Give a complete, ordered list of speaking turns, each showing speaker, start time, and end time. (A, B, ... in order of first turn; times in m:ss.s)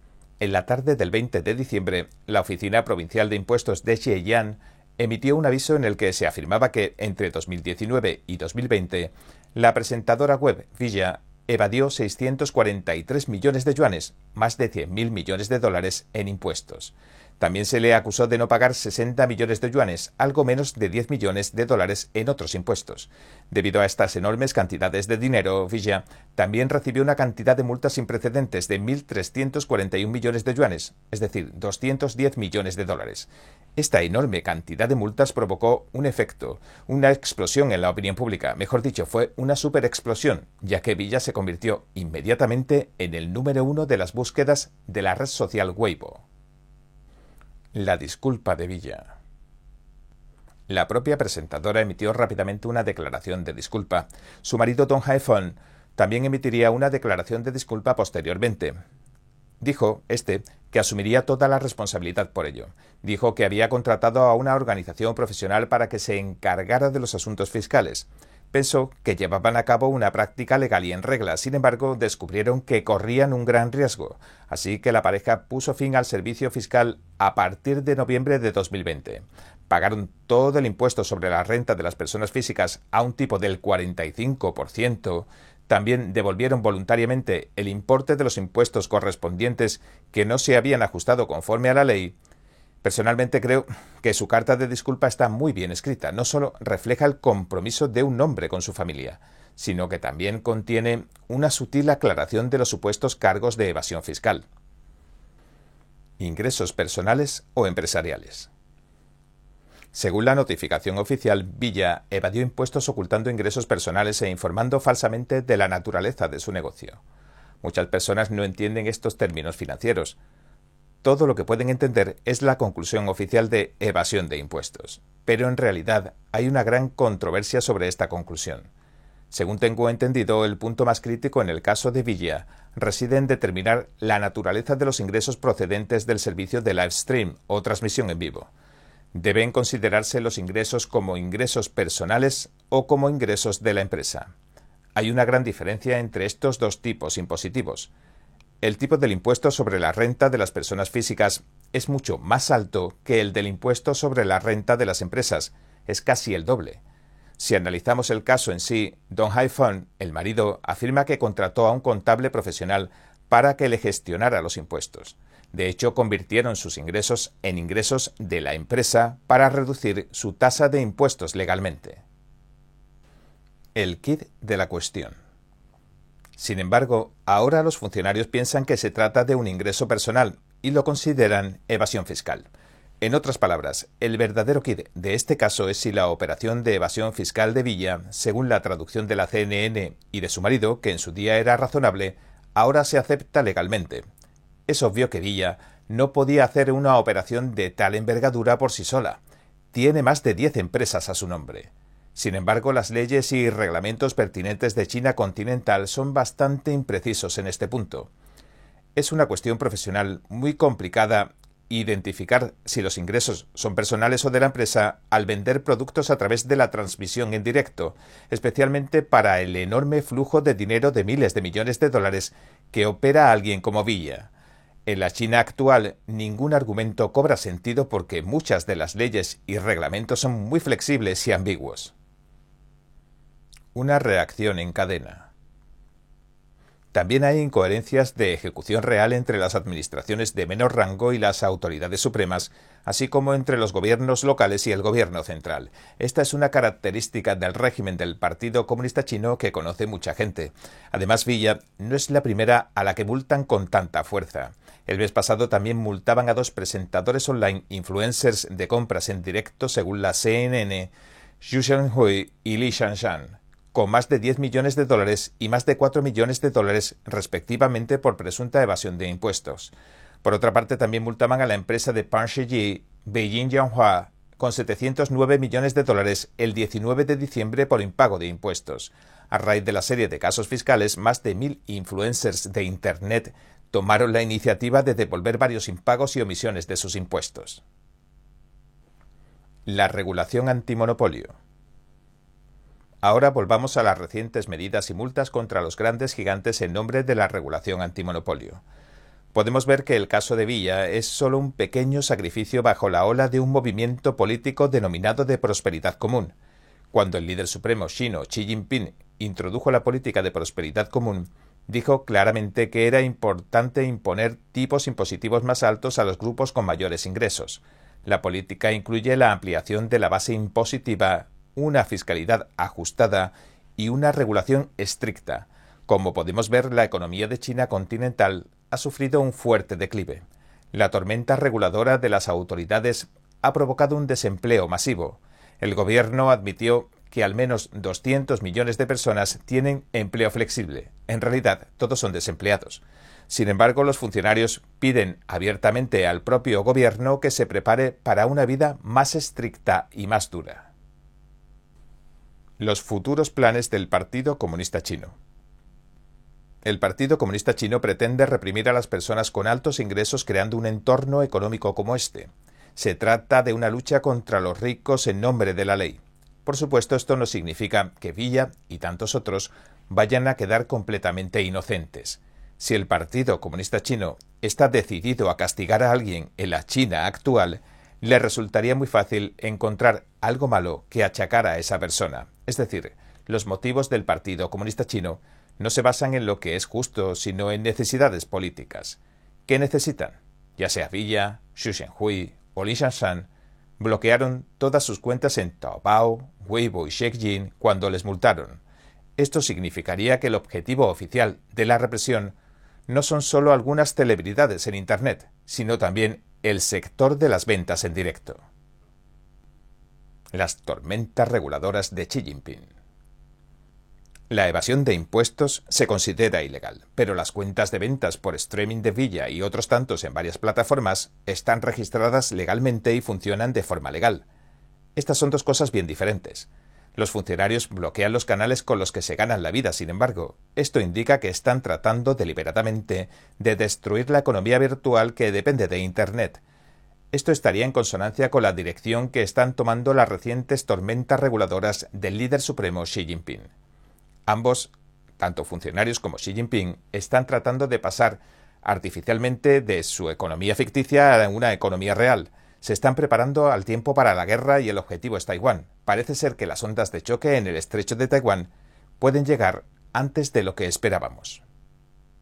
0:00.4-0:46.2 A
0:47.7-0:49.1 A
0:50.7-0:58.8 A
0:59.6-1:32.1 A
1:32.8-1:44.4 A
1:46.2-1:48.5 A
1:49.9-1:57.0 A
1:57.6-2:00.2 A
2:01.0-2:08.7 A
2:09.3-2:18.5 A
2:19.1-2:24.3 A
2:25.0-2:27.9 A
2:28.6-2:36.8 A
2:37.4-2:52.0 A
2:53.7-2:55.2 A
2:56.4-3:02.5 A
3:03.0-3:14.0 A
3:14.7-3:19.2 A
3:19.7-3:28.1 A
3:29.0-3:44.3 A
3:44.8-3:51.9 A
3:53.7-3:55.3 A
3:56.9-4:29.7 A
4:30.2-4:47.6 A
4:49.6-4:51.3 A
4:53.0-4:58.6 A
4:59.3-5:06.3 A
5:06.9-5:50.7 A
5:52.6-5:55.2 A
5:56.6-6:38.6 A
6:39.2-6:42.3 A
6:42.9-6:48.4 A
6:50.3-6:52.7 A
6:54.3-7:04.2 A
7:05.0-7:16.4 A
7:17.1-7:23.5 A
7:24.3-7:41.4 A